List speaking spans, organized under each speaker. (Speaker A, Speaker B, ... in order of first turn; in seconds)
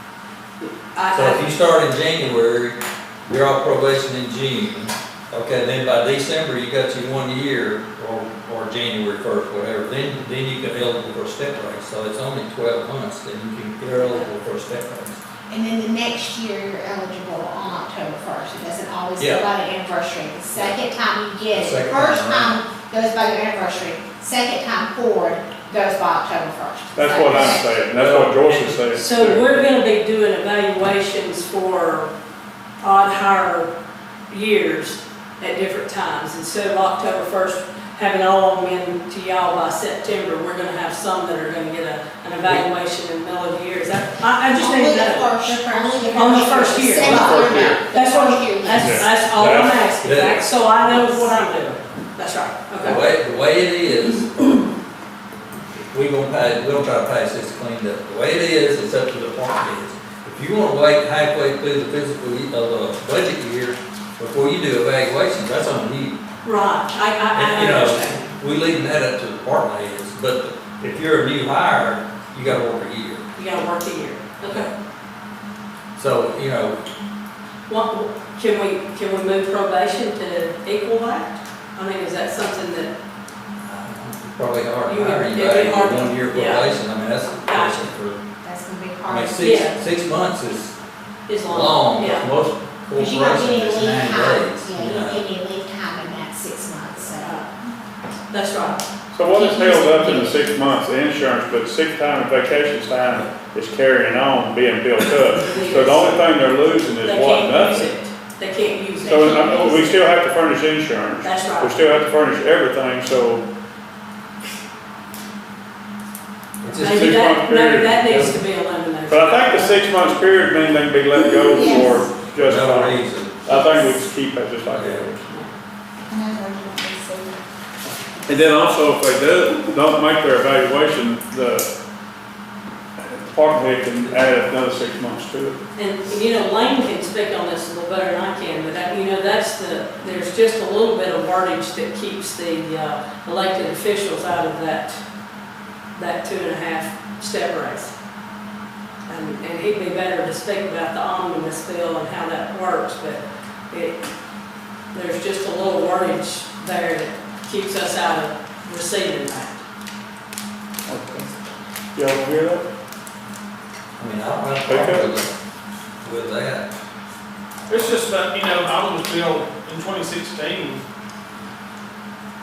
Speaker A: 0.6-1.4, 28.9-32.1, 32.8-33.7, 34.3-53.0, 66.4-68.2, 73.3-74.7, 77.7-82.9, 84.9-86.7, 87.4-87.9, 89.4-89.8, 91.3-92.3, 97.1-97.5, 98.3-98.8, 105.4-106.2, 107.0-110.0, 111.2-111.8, 116.8-119.9, 135.8-145.0, 145.9-147.9, 149.1-154.0, 154.9-159.6
Speaker B: 1.1-15.2, 19.2-19.4, 20.5-20.8, 21.5-22.6, 27.9-29.6, 50.0-50.4, 52.8-54.7, 55.9-66.2, 67.3-73.2, 76.0-76.8, 83.6-88.2, 89.1-90.7, 91.5-95.2, 116.6-117.2, 122.3-123.5, 124.7-125.1, 134.0-134.4, 164.0-165.3, 166.0-166.7
Speaker C: 15.5-27.6, 44.6-49.1, 88.4-89.4, 93.0-97.5, 99.3-100.4, 121.4-122.1, 126.1-127.4
Speaker D: 26.9-29.2, 47.0-47.8, 48.8-49.8, 99.1-107.9, 109.0-113.4, 116.8-118.4, 119.1-125.3, 128.2-131.7, 133.0-135.6, 160.9-161.3, 161.9-162.7, 164.7-165.1
Speaker E: 167.7-170.8